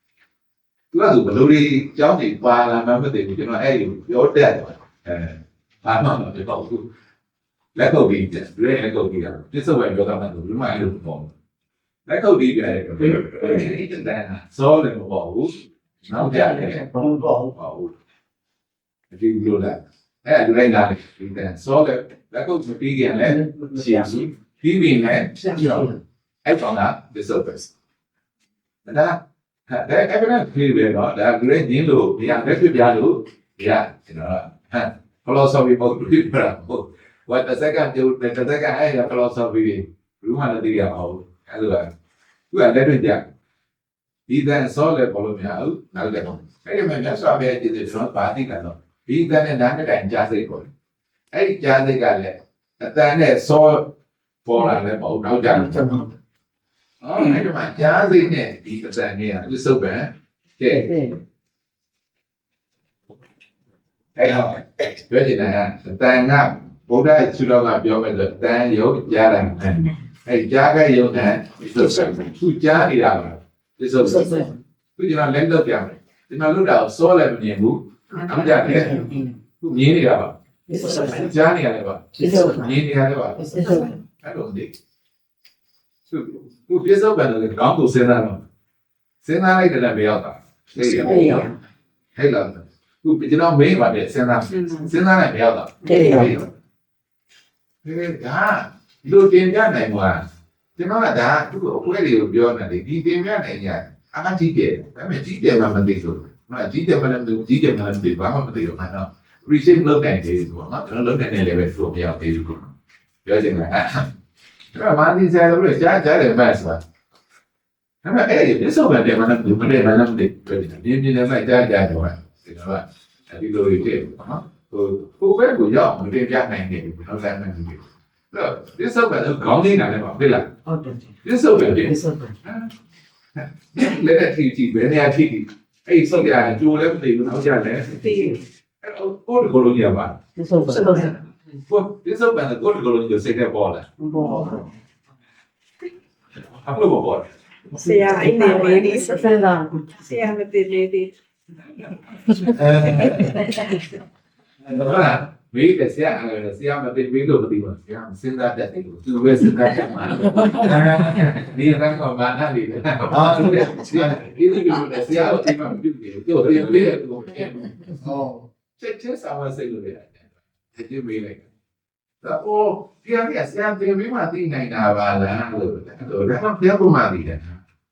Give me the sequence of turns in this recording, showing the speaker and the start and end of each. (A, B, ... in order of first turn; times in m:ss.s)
0:00.9-0:06.9 A
0:07.8-0:11.3 A
0:12.1-0:16.9 A
0:16.2-0:17.5 B
0:17.5-0:17.9 A
0:19.1-0:25.9 A
0:23.2-0:24.1 B
0:25.5-0:25.9 B
0:26.4-0:27.7 A
0:28.8-0:41.9 A
0:42.5-0:43.3 A
0:44.3-0:50.7 A
0:51.3-0:56.0 A
0:55.5-0:56.1 B
0:57.0-1:00.9 A
1:00.7-1:01.2 B
1:04.2-1:19.0 A
1:14.0-1:14.6 B
1:18.3-1:19.3 B
1:19.6-1:24.7 A
1:20.7-1:21.3 B
1:22.2-1:22.8 B
1:23.4-1:23.9 B
1:26.1-1:28.4 A
1:29.2-1:31.5 A
1:30.8-1:31.6 B
1:32.1-1:36.5 A
1:35.8-1:36.3 B
1:37.8-1:40.2 A
1:40.8-1:52.7 A
1:53.2-1:54.1 A
1:54.7-1:56.8 A
1:58.0-2:10.5 A
2:10.6-2:11.1 B
2:11.2-2:12.7 A
2:11.8-2:12.3 B
2:13.4-2:18.2 A
2:17.9-2:18.4 C
2:18.8-2:20.2 A
2:20.4-2:21.2 B
2:20.7-2:21.0 C
2:21.1-2:24.6 A
2:24.0-2:24.6 B
2:26.4-2:27.3 A
2:27.7-2:31.1 C
2:27.7-2:30.0 B
2:32.2-2:33.5 A
2:32.6-2:33.8 B
2:34.6-2:48.0 A
2:43.3-2:44.0 B
2:48.1-2:48.3 B
2:48.8-2:51.5 A
2:52.2-2:57.6 A